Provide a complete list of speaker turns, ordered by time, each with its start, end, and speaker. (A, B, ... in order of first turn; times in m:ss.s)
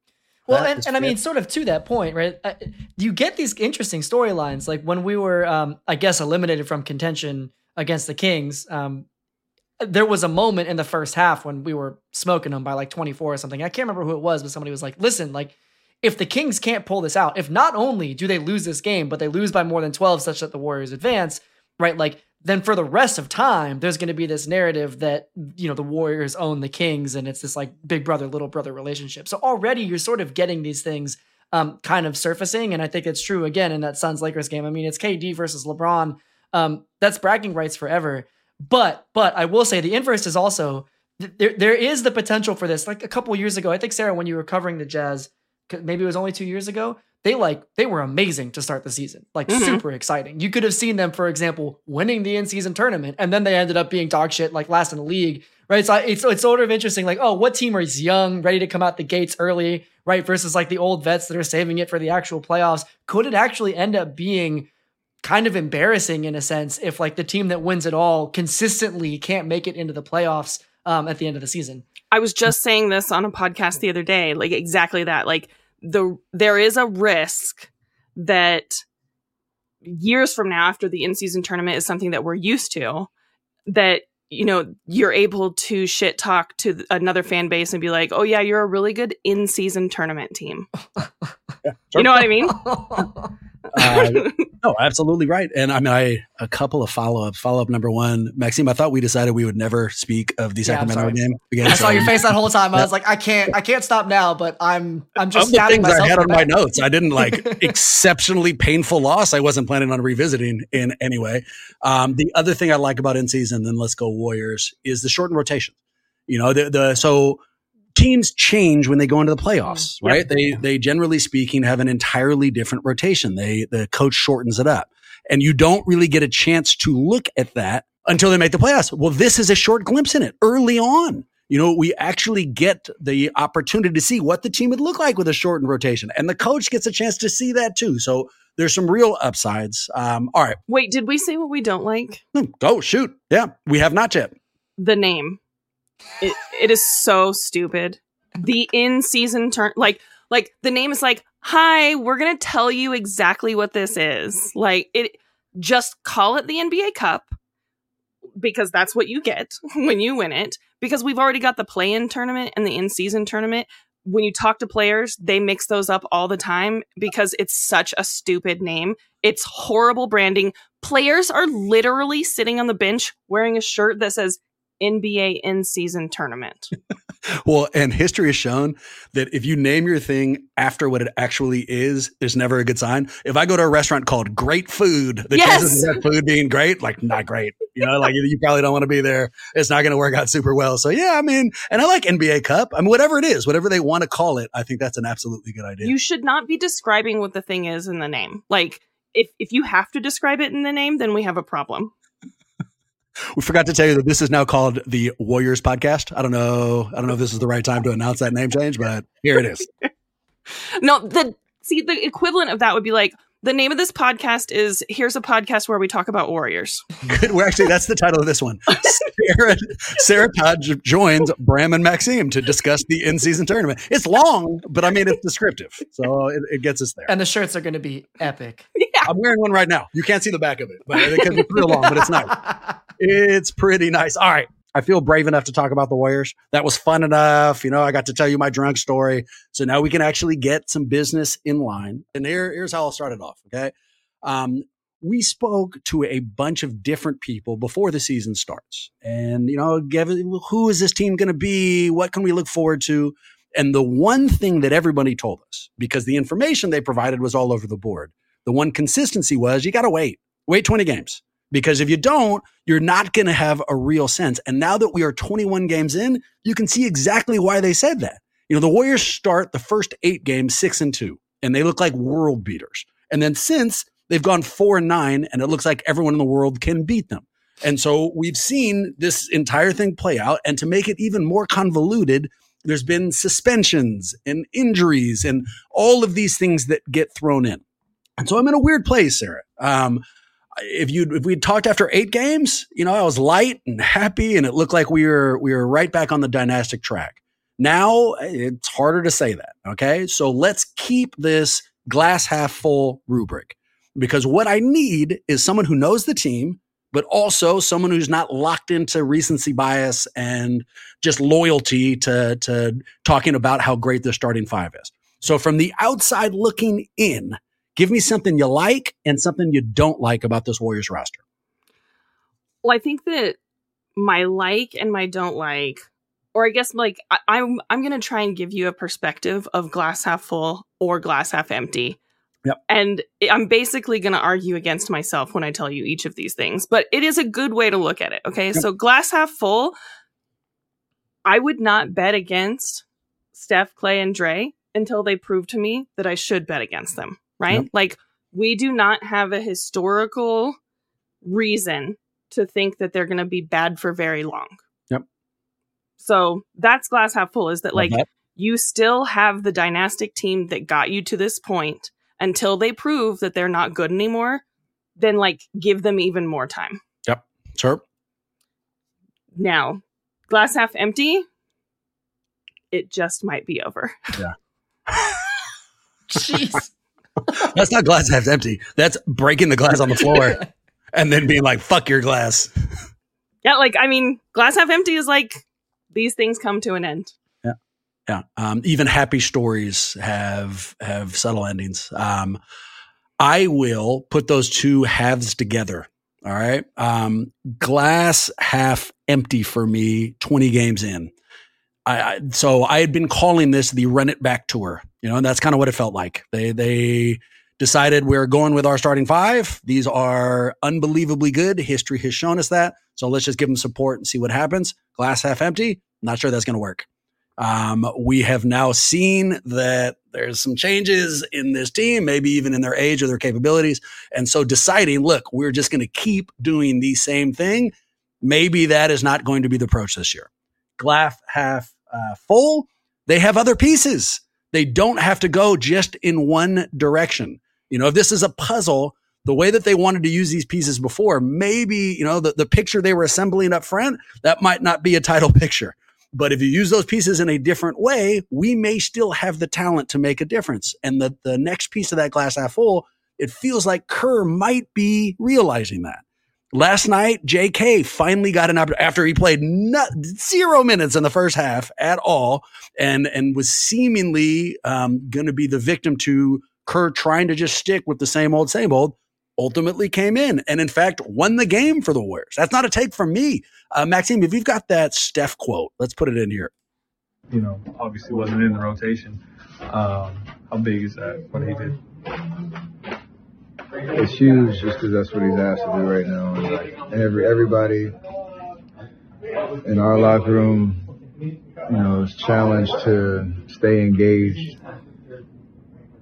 0:00.5-0:09.0 A
0:00.5-0:01.1 B
0:09.8-1:04.7 A
0:49.5-0:49.8 C
1:05.2-1:11.8 A
1:12.1-1:18.8 C
1:19.8-1:23.1 C
1:23.7-1:30.7 C
1:31.6-1:32.1 B
1:31.9-1:32.6 C
1:32.5-1:33.3 A
1:33.7-1:42.9 B
1:33.8-1:34.4 C
1:40.6-1:46.5 A
1:45.3-1:55.8 B
1:47.4-1:47.6 A
1:56.3-1:57.4 B
1:57.9-2:20.6 B
2:20.7-2:22.2 C
2:22.3-2:24.4 B
2:24.8-2:25.4 C
2:26.2-2:37.3 C
2:38.4-2:56.7 C
2:57.4-3:15.9 B
3:05.3-3:06.0 C
3:15.8-3:21.9 C
3:23.3-3:29.7 B
3:30.8-3:36.8 C
3:37.0-3:47.1 B
3:47.1-3:48.6 A
3:48.7-3:49.1 C
3:49.0-4:47.6 B
4:48.2-4:50.0 B
4:50.6-5:21.2 B
5:22.6-5:23.4 C
5:24.0-5:25.8 C
5:26.3-5:32.0 C
5:32.7-5:39.8 C
5:41.2-5:42.8 C
5:43.3-5:50.6 C
5:51.2-5:54.6 C
5:56.0-6:04.4 C
5:57.7-5:58.0 B
6:05.0-6:06.8 C
6:07.0-6:07.8 B
6:09.4-6:11.2 C
6:12.7-6:14.0 C
6:14.9-6:15.2 B
6:16.1-6:16.7 A
6:17.4-6:20.4 B
6:20.9-6:22.5 B
6:23.4-6:27.1 C
6:28.1-6:32.4 B
6:33.2-6:41.1 B
6:41.8-6:56.8 B
6:57.4-7:56.5 B
7:57.3-8:01.8 D
8:03.9-8:07.9 E
8:09.6-8:10.8 E
8:11.6-8:14.6 E